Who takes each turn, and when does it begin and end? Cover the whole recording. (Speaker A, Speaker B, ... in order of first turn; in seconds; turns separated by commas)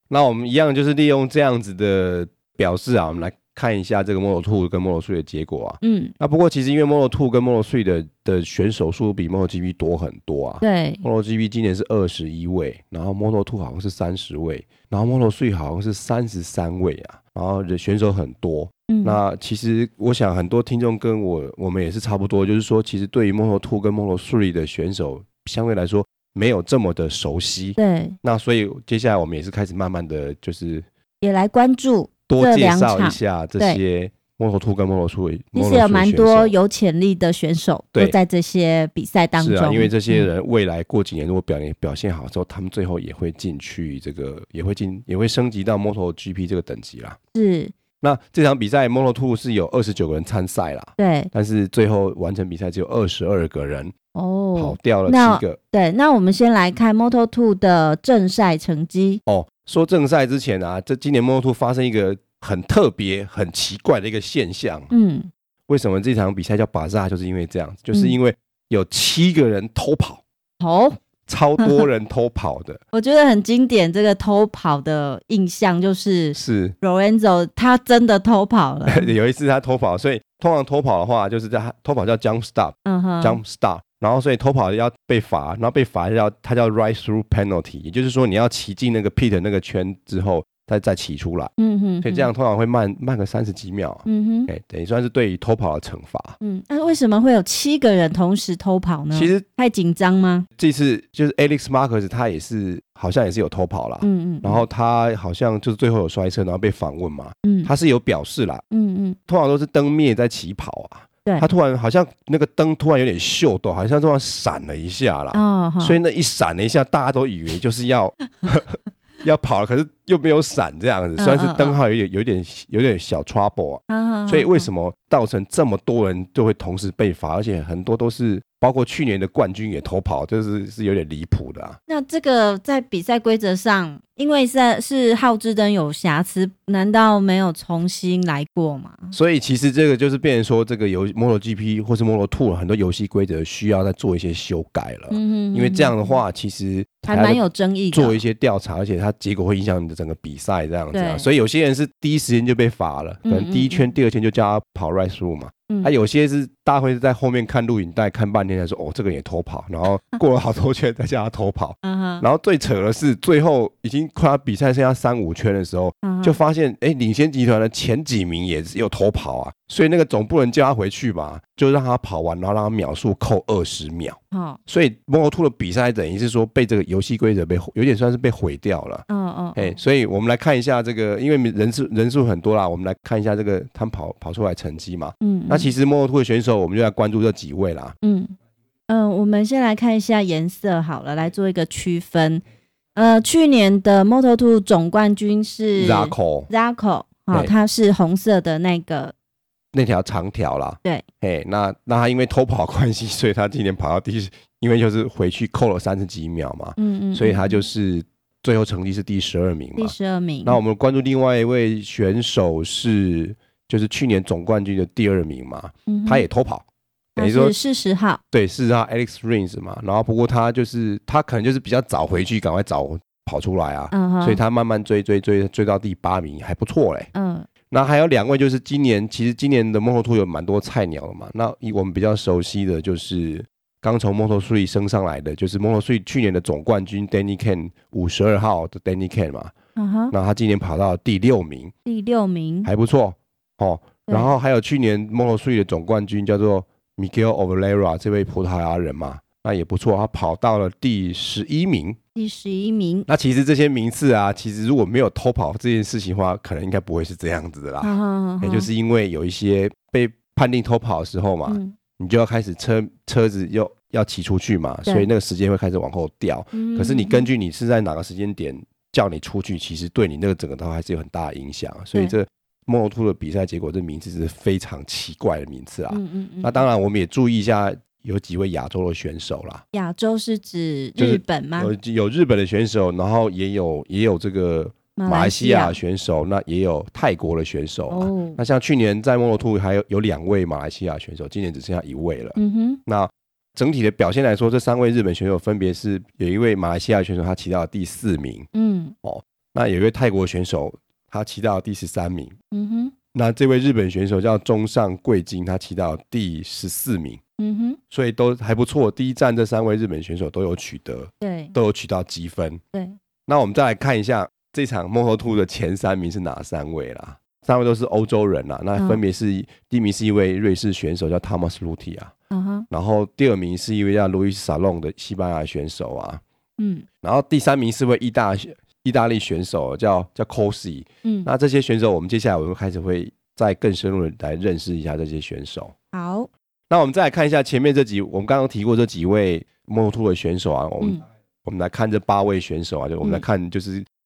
Speaker A: 0.1-30.9, Speaker B: 5.8-6.1, Speaker B: 10.6-11.0, Speaker B: 18.9-19.2, Speaker B: 27.8-28.1, Speaker B: 31.2-33.8, Speaker A: 32.3-36.5, Speaker B: 35.5-40.3, Speaker A: 39.4-47.2, Speaker B: 47.3-47.8, Speaker A: 48.0-53.9, Speaker B: 51.0-51.3, Speaker B: 54.1-59.2, Speaker A: 54.5-55.6, Speaker A: 59.3-64.9, Speaker B: 64.9-65.3, Speaker A: 65.7-70.2, Speaker B: 70.6-71.0, Speaker A: 71.3-72.8, Speaker B: 72.9-79.1, Speaker A: 76.3-76.8, Speaker A: 78.9-91.5, Speaker B: 82.8-83.4, Speaker B: 91.6-92.3, Speaker A: 92.0-96.4, Speaker B: 94.0-94.5, Speaker B: 96.4-100.5, Speaker A: 99.1-99.4, Speaker A: 100.6-108.6, Speaker B: 104.0-104.6, Speaker B: 107.4-107.7, Speaker B: 108.7-109.2, Speaker A: 109.3-131.8, Speaker B: 115.3-116.0, Speaker B: 121.2-121.8, Speaker B: 123.9-124.7, Speaker B: 131.9-139.1, Speaker A: 139.1-187.9, Speaker B: 145.1-146.2, Speaker B: 147.1-148.2, Speaker B: 150.9-151.3, Speaker B: 153.2-153.9, Speaker B: 161.8-162.2, Speaker B: 166.0-166.4, Speaker B: 174.3-174.6, Speaker B: 179.1-179.8, Speaker B: 185.2-185.7, Speaker B: 188.0-188.3, Speaker B: 188.9-192.4, Speaker B: 192.9-199.1, Speaker A: 195.8-196.5, Speaker A: 199.7-216.6, Speaker B: 206.8-207.6, Speaker B: 209.8-210.6, Speaker B: 215.9-216.2, Speaker A: 217.2-217.5, Speaker B: 217.2-218.2, Speaker A: 218.3-227.1, Speaker B: 223.9-224.4, Speaker B: 227.1-227.5, Speaker A: 227.7-239.5, Speaker B: 239.8-240.1, Speaker A: 240.1-241.7, Speaker B: 241.8-242.7, Speaker A: 242.6-252.0, Speaker B: 252.2-253.1, Speaker A: 253.1-279.6, Speaker B: 257.8-258.7, Speaker B: 261.5-261.8, Speaker B: 266.5-267.3, Speaker B: 275.9-276.6, Speaker B: 279.7-281.7, Speaker A: 281.0-298.5, Speaker B: 284.9-285.8, Speaker B: 287.9-288.4, Speaker B: 292.4-292.8, Speaker B: 298.5-298.9, Speaker A: 299.0-302.3, Speaker B: 302.5-302.9, Speaker A: 303.1-307.2, Speaker B: 307.4-307.8, Speaker A: 307.9-312.6, Speaker B: 311.2-311.5, Speaker A: 313.3-322.1, Speaker B: 318.8-319.0, Speaker B: 322.3-322.6, Speaker A: 322.7-326.2, Speaker B: 326.6-326.9, Speaker A: 327.0-335.7, Speaker B: 331.0-331.3, Speaker B: 335.9-336.3, Speaker A: 336.7-343.9